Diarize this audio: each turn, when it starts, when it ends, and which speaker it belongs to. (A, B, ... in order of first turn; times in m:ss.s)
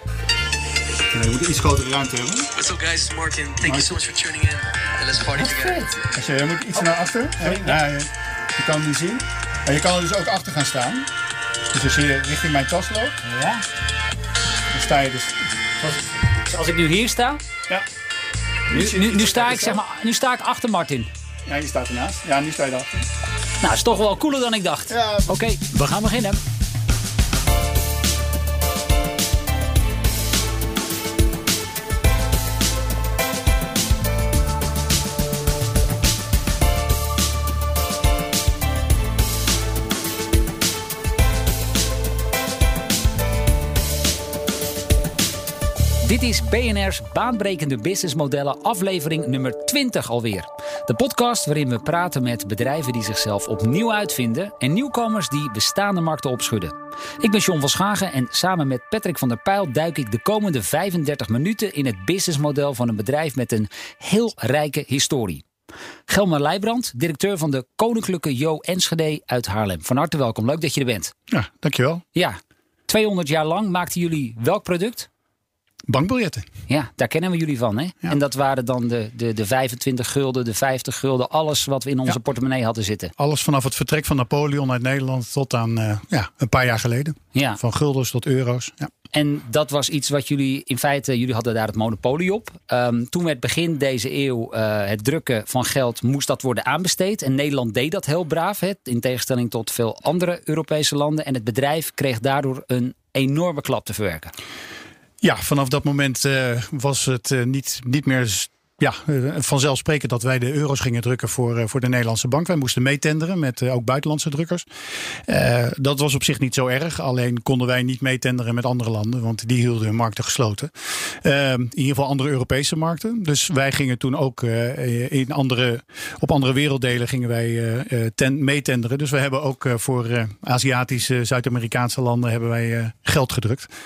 0:01.1-0:02.5 A
0:02.6-0:05.9 B
0:03.6-0:04.0 A
0:05.4-0:11.1 A
0:07.4-0:07.7 C
0:11.7-0:13.2 A
0:13.3-0:13.6 C
0:14.7-0:16.0 A
0:16.4-0:17.4 C
0:18.7-0:19.8 A
0:18.7-0:21.1 C
0:21.5-0:23.0 A
0:23.6-0:26.4 C
0:24.9-0:25.4 A
0:46.0-1:05.4 C
1:06.1-1:11.1 C
1:11.3-1:12.0 A
1:12.1-1:15.1 C
1:15.9-1:16.4 A
1:16.7-1:23.1 C
1:23.2-1:28.9 A
1:27.3-1:27.6 C
1:29.1-1:44.3 C
1:45.2-1:54.6 A
1:55.3-2:13.7 A